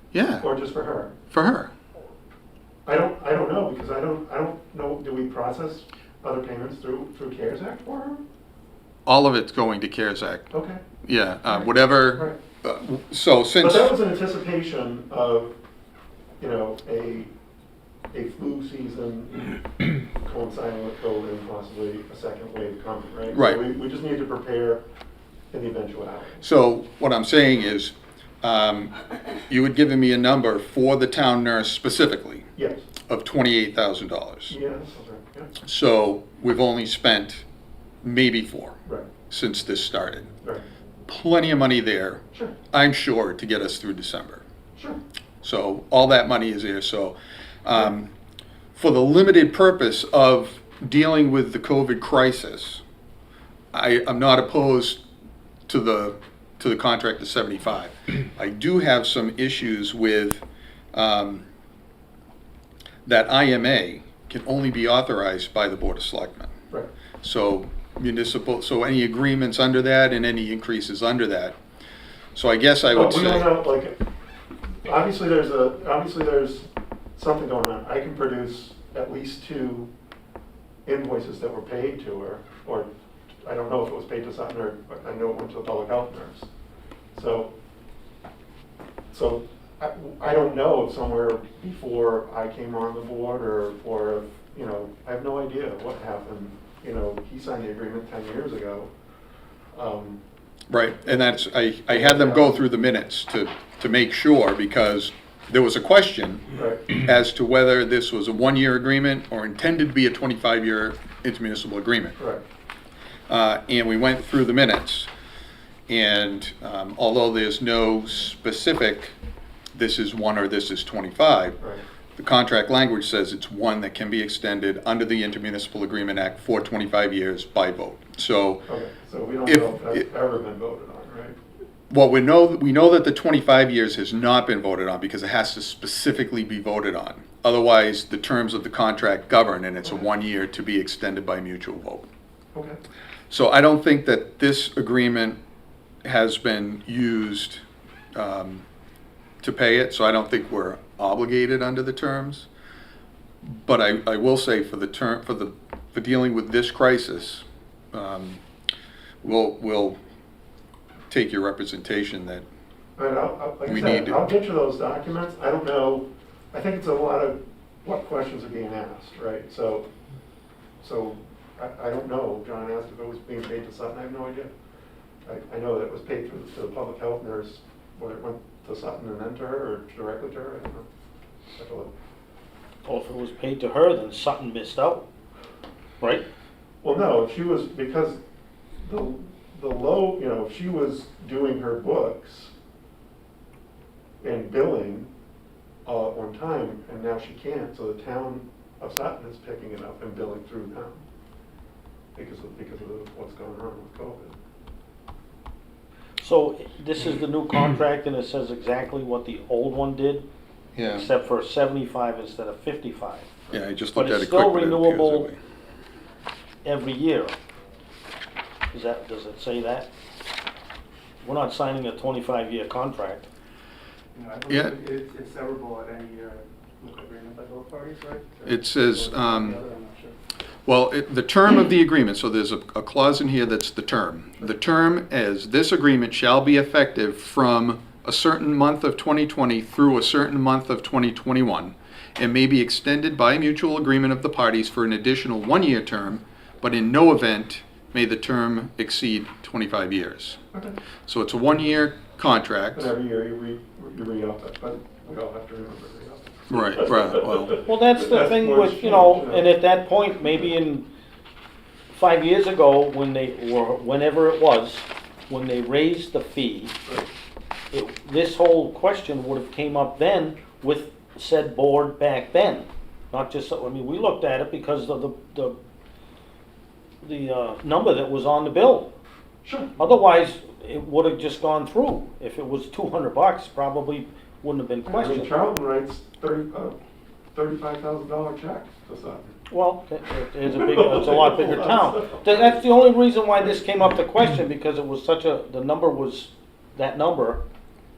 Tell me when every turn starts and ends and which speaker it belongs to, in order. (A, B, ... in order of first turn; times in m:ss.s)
0:00.1-0:00.5 A
0:00.4-0:01.1 B
0:01.3-0:01.7 A
0:02.8-0:08.2 B
0:09.0-0:10.5 A
0:10.5-0:10.8 B
0:11.0-0:14.0 A
0:11.4-0:12.4 B
0:13.6-0:15.5 B
0:16.4-0:17.3 B
0:18.1-0:24.8 B
0:23.3-0:23.6 A
0:25.5-0:26.4 B
0:26.4-0:28.9 A
0:29.5-0:32.4 A
0:32.6-0:32.9 B
0:33.1-0:34.5 A
0:34.5-0:35.5 B
0:35.6-0:37.4 A
0:38.0-0:38.8 A
0:39.3-0:40.3 A
0:41.1-0:44.4 A
0:45.4-0:48.1 A
0:48.7-0:52.8 A
0:53.7-0:55.0 A
0:55.7-1:00.4 A
1:00.9-1:01.4 A
1:03.0-1:06.5 A
1:07.2-1:11.6 A
1:12.3-1:13.6 A
1:12.9-1:14.0 B
1:14.8-1:19.9 B
1:20.8-1:22.9 B
1:23.4-1:26.5 B
1:27.1-1:27.5 B
1:29.1-1:38.9 B
1:39.7-1:40.2 B
1:40.7-1:52.2 A
1:41.9-1:42.6 B
1:46.5-1:46.8 B
1:52.2-1:52.4 B
1:53.3-1:55.1 A
1:55.9-1:59.2 A
1:59.7-2:01.6 A
2:02.2-2:08.6 A
2:08.7-2:11.4 B
2:09.5-2:09.9 A
2:11.9-2:22.0 A
2:23.3-2:25.4 A
2:26.0-2:27.6 A
2:28.2-2:28.6 A
2:29.4-2:32.5 A
2:33.4-2:38.4 A
2:39.2-2:40.0 A
2:41.1-2:42.4 A
2:43.0-2:49.8 B
2:43.6-2:44.2 A
2:50.8-2:54.5 B
2:55.2-3:00.9 B
3:01.6-3:01.9 B
3:02.8-3:05.0 C
3:06.8-3:08.2 B
3:08.8-3:12.5 B
3:14.2-3:15.1 B
3:15.8-3:21.0 B
3:22.2-3:24.3 B
3:26.2-3:30.2 C
3:30.8-3:31.1 A
3:30.8-3:33.3 C
3:33.5-3:35.4 A
3:33.9-3:35.3 C
3:36.6-3:37.3 C
3:38.7-3:39.9 C
3:41.2-3:43.2 C
3:44.2-3:50.1 D
3:44.5-3:44.7 A
3:48.4-3:49.6 A
3:50.6-4:10.4 A
4:11.1-4:12.9 A
4:12.7-4:19.5 B
4:16.5-4:17.6 A
4:17.6-4:20.9 C
4:21.9-4:26.8 C
4:27.7-4:35.6 C
4:37.0-4:38.9 C
4:39.4-4:40.0 B
4:39.8-4:45.4 C
4:44.8-4:46.8 B
4:47.3-4:49.3 B
4:49.5-4:57.4 C
4:50.4-4:52.6 B